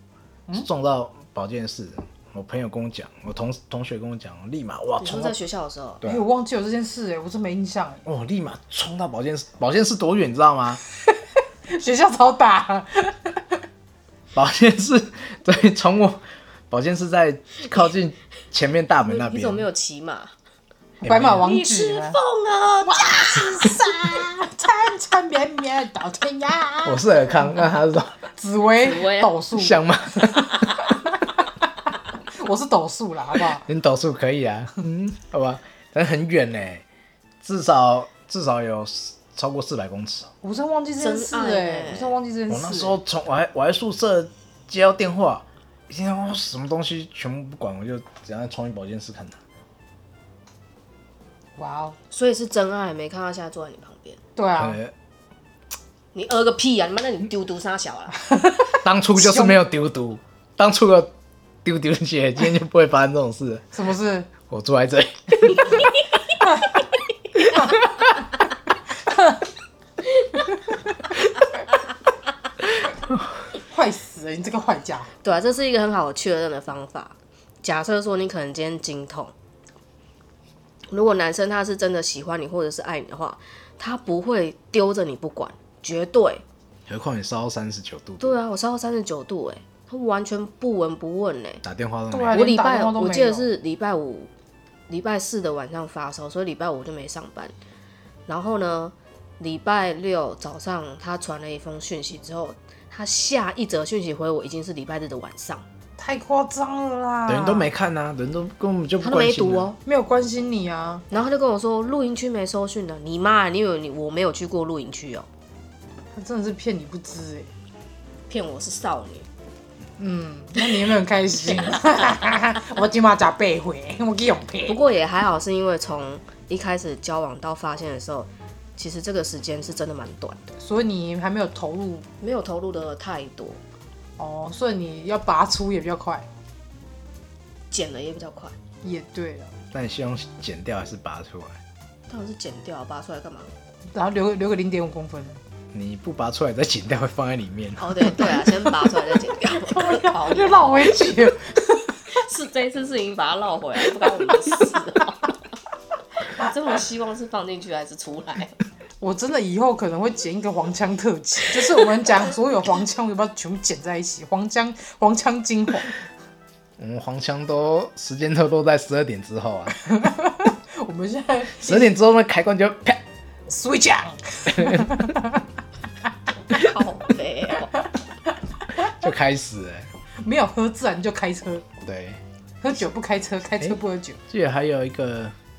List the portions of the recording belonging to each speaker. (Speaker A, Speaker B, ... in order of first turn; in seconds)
Speaker A: 0.5-5.4, 8.0-10.8, 14.3-19.6, 21.0-21.4, 26.8-28.2, 29.5-30.6, 33.6-36.8, 37.4-40.3, 42.5-49.4, 54.6-54.9, 58.8-61.1, 61.6-63.6, 64.4-65.8, 86.9-88.4, 91.6-92.5, 107.3-109.7, 139.7-141.6, 145.7-148.1, 166.8-169.8, 171.6-173.0, 174.5-174.9, 178.8-179.9, 181.8-182.2, 184.3-185.3
Speaker B: 5.0-6.0, 19.1-20.3, 21.4-24.3, 28.8-29.4, 41.0-42.1, 52.1-54.2, 56.1-58.2, 75.2-79.3, 80.9-86.4, 88.2-91.6, 92.3-94.3, 94.9-97.5, 98.3-105.6, 109.0-109.8, 111.1-115.3, 118.3-119.3, 124.7-130.5, 132.2-133.6, 137.7-138.5, 142.1-143.5, 147.8-151.0, 152.1-155.3, 156.2-158.6, 176.5-177.7
Speaker C: 6.0-8.0, 11.7-13.4, 21.0-22.2, 22.8-27.7, 28.4-31.2, 32.3-33.6, 40.4-43.0, 51.6-52.0, 54.4-54.8, 58.3-59.6, 63.7-64.3, 73.6-75.1, 92.1-93.5, 106.0-107.7, 109.8-111.0, 116.1-117.5, 120.0-124.8, 130.6-132.1, 134.2-136.3, 138.8-139.5, 143.9-145.4, 148.2-148.9, 149.4-152.0, 159.0-165.9, 169.8-171.9, 173.5-175.4, 180.2-181.6, 182.6-184.2